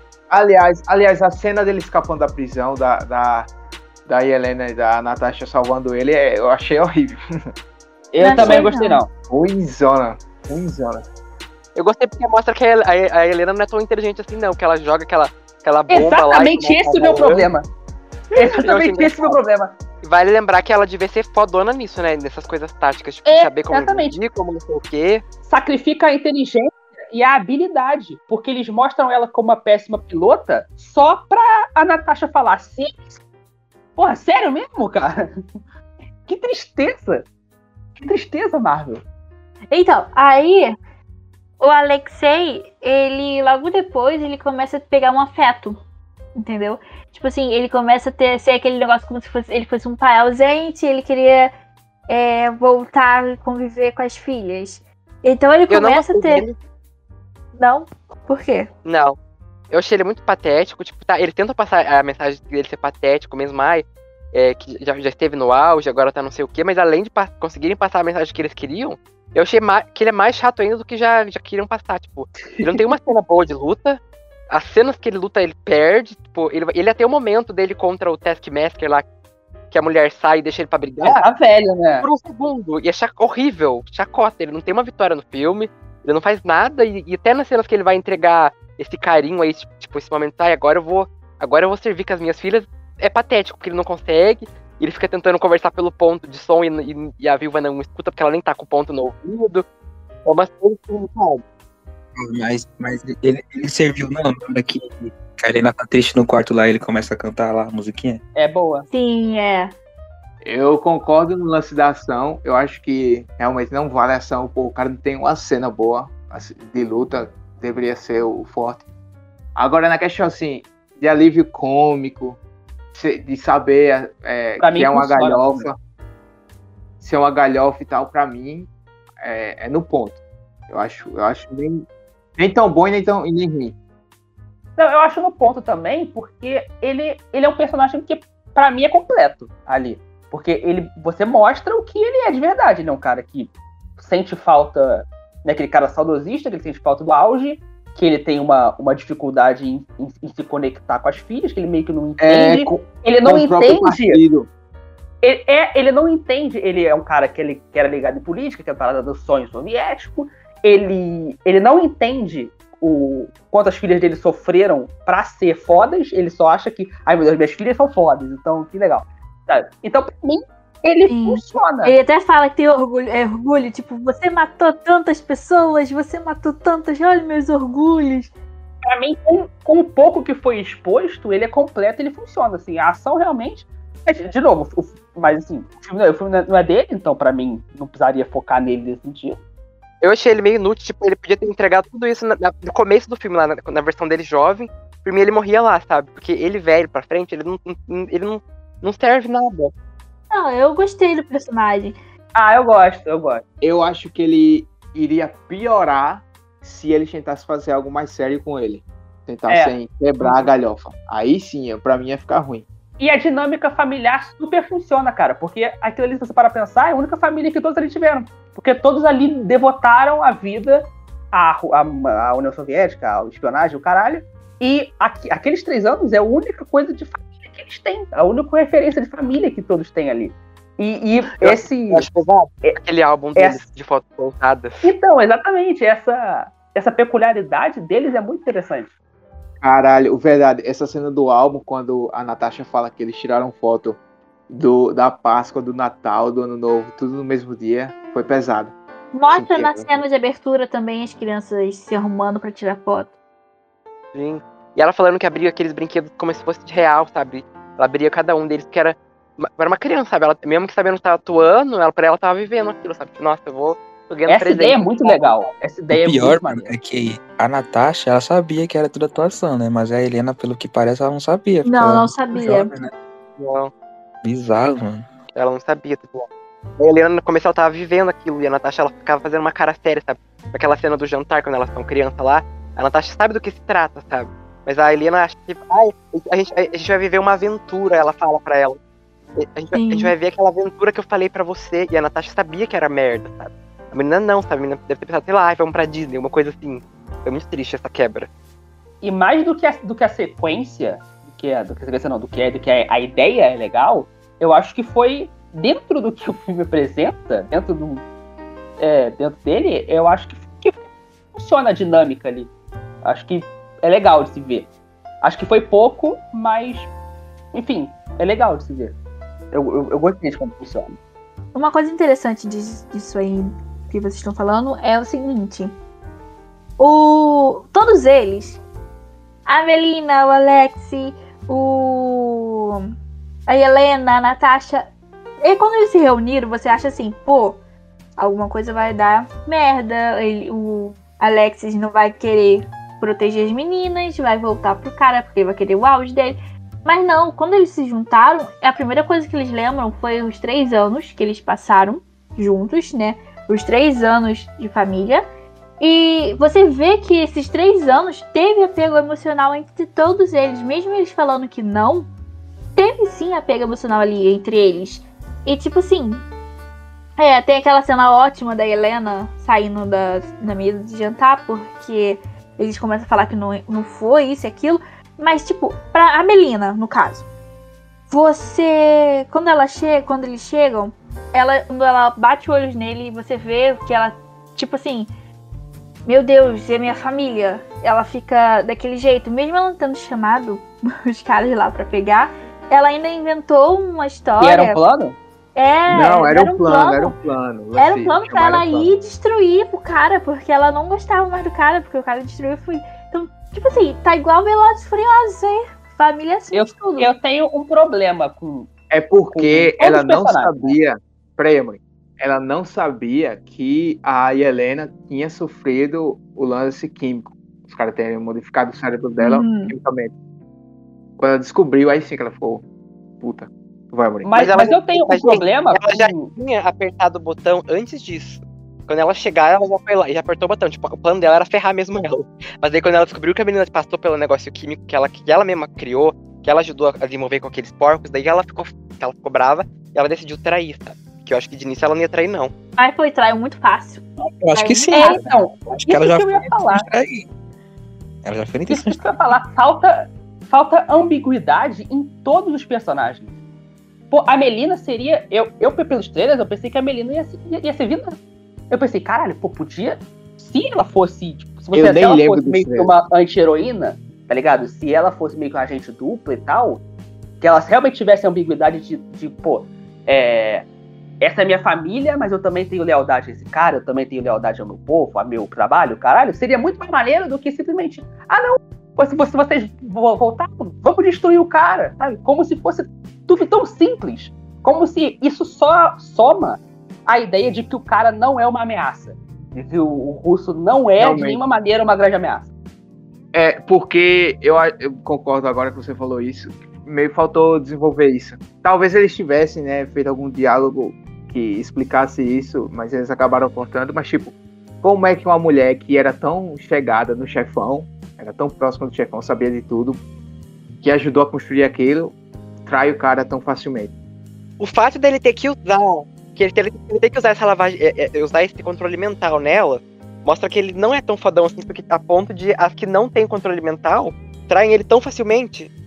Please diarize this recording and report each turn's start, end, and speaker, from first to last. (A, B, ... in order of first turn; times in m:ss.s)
0:00.3-0:03.5 A
0:04.0-0:07.2 A
0:08.1-0:09.1 B
0:08.2-0:09.0 C
0:08.4-0:08.7 A
0:09.3-0:11.0 A
0:11.8-0:17.5 D
0:15.9-0:17.6 B
0:18.3-0:19.4 D
0:18.3-0:19.7 B
0:20.0-0:25.2 D
0:23.2-0:24.2 B
0:25.4-0:33.2 B
0:34.0-0:35.4 B
0:36.2-0:37.2 B
0:38.0-0:39.0 B
0:39.7-0:40.7 C
0:41.6-0:45.8 C
0:46.3-0:51.5 C
0:52.1-0:56.4 C
0:55.7-0:56.6 D
0:57.5-0:58.7 C
0:58.8-0:59.2 D
0:59.7-1:19.0 D
1:12.5-1:12.8 B
1:19.7-1:21.2 D
1:21.0-1:22.1 B
1:22.0-1:39.6 D
1:40.2-1:41.4 D
1:42.2-1:48.2 E
1:48.3-1:48.9 B
1:48.9-1:49.7 C
1:50.4-1:58.8 A
1:59.6-2:02.4 A
2:02.9-2:05.8 A
2:04.6-2:05.7 B
2:07.0-2:08.7 A
2:09.2-2:10.2 A
2:10.7-2:13.8 A
2:14.8-2:34.2 B
2:32.2-2:34.5 A
2:35.2-2:51.9 B
2:51.0-2:58.3 C
2:58.8-3:09.4 B
3:10.0-3:19.7 D
3:20.3-3:22.0 C
3:22.3-3:23.4 B
3:23.6-3:32.6 A
3:29.5-3:30.5 B
3:33.0-3:52.1 B
3:51.4-3:54.9 D
3:53.4-3:53.6 B
3:54.8-3:58.9 B
3:59.6-4:08.7 A
4:09.1-4:13.1 C
4:09.3-4:10.0 A
4:14.1-4:25.5 D
4:24.3-4:26.7 B
4:25.9-4:32.9 E
4:31.6-4:32.7 C
4:33.4-4:33.7 D
4:34.2-4:35.1 E
4:35.3-4:36.3 D
4:36.8-4:48.8 D
4:49.4-4:58.3 D
4:49.7-4:50.1 C
4:59.0-5:08.0 B
5:08.8-5:12.5 B
5:13.0-5:14.7 B
5:15.2-5:16.9 B
5:17.5-5:18.9 B
5:19.5-5:21.0 B
5:21.5-5:25.7 C
5:26.8-5:28.6 C
5:29.4-5:32.8 C
5:33.5-5:34.9 C
5:35.4-5:37.6 C
5:38.2-5:55.2 C
5:55.8-6:02.1 C
6:02.8-6:06.2 C
6:07.2-6:17.2 C
6:18.1-6:25.1 C
6:26.0-6:34.8 C
6:34.4-6:35.2 B
6:35.5-6:37.2 C
6:35.9-6:38.9 A
6:37.8-6:47.1 C
6:46.5-6:48.7 B
6:48.9-7:00.1 A
6:49.3-6:50.8 B
6:59.2-6:59.7 C
7:01.2-7:02.6 A
7:03.2-7:04.4 A
7:04.2-7:06.3 B
7:04.4-7:22.5 D
7:22.8-7:25.2 C
7:24.2-7:27.3 E
7:24.9-7:26.9 B
7:28.2-7:29.0 E
7:28.7-7:33.3 B
7:34.1-7:38.2 B
7:38.7-7:46.8 B
7:41.7-7:42.9 A
7:47.4-7:50.7 B
7:51.2-8:12.5 B
8:11.0-8:11.4 A
8:13.3-8:30.0 A
8:30.8-8:33.9 A
8:34.6-8:45.7 D